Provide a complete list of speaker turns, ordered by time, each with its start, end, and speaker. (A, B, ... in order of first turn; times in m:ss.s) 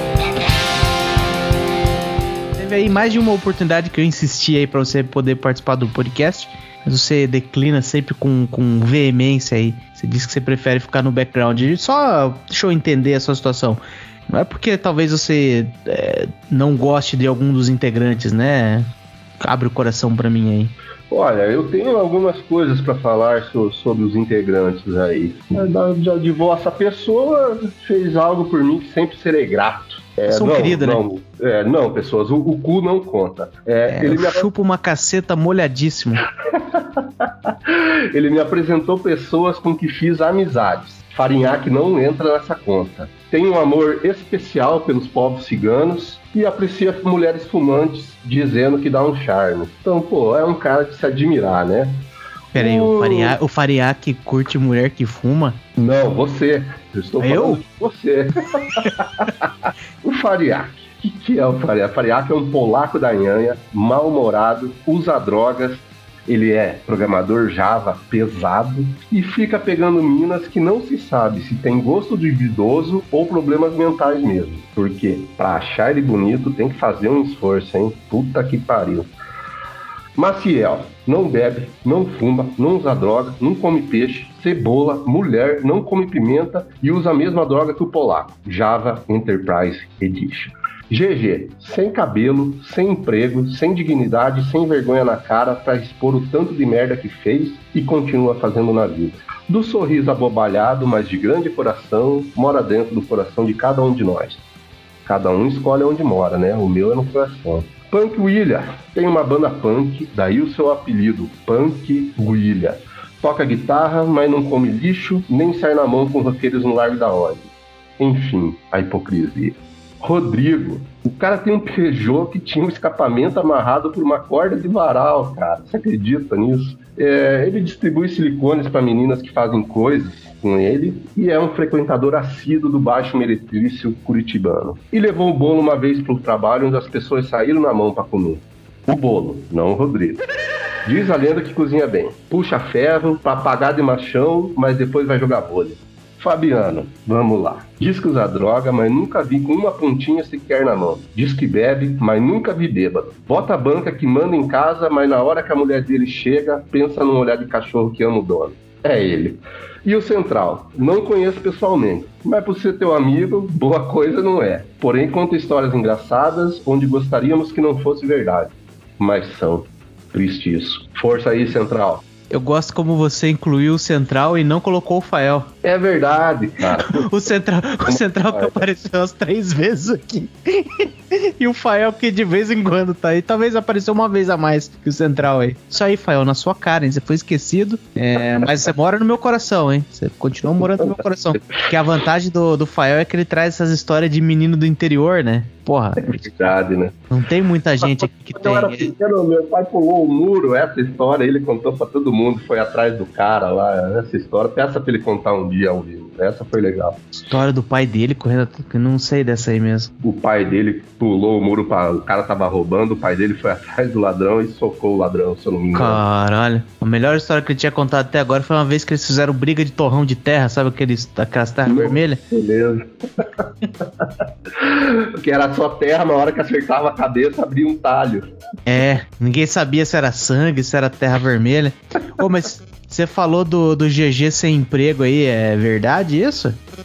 0:02.6-0:18.9 A
0:19.4-0:20.7 A
0:21.1-0:34.5 B
0:30.3-0:31.0 A
0:33.9-0:36.2 A
0:36.5-0:53.4 B
0:52.5-0:55.6 A
0:55.8-0:59.5 B
0:57.2-0:57.6 A
1:00.0-1:19.1 B
1:20.2-1:44.4 B
1:45.0-2:20.2 B
2:20.8-2:52.0 B
2:52.3-2:55.5 A
2:55.6-2:57.2 B
2:56.8-3:16.4 A
2:57.8-2:58.6 B
3:10.8-3:11.6 B
3:16.0-3:17.0 B
3:17.1-3:18.9 A
3:17.8-3:27.0 B
3:27.2-3:29.9 A
3:30.0-3:36.0 B
3:35.7-3:42.2 A
3:41.6-3:48.2 B
3:48.7-3:56.6 A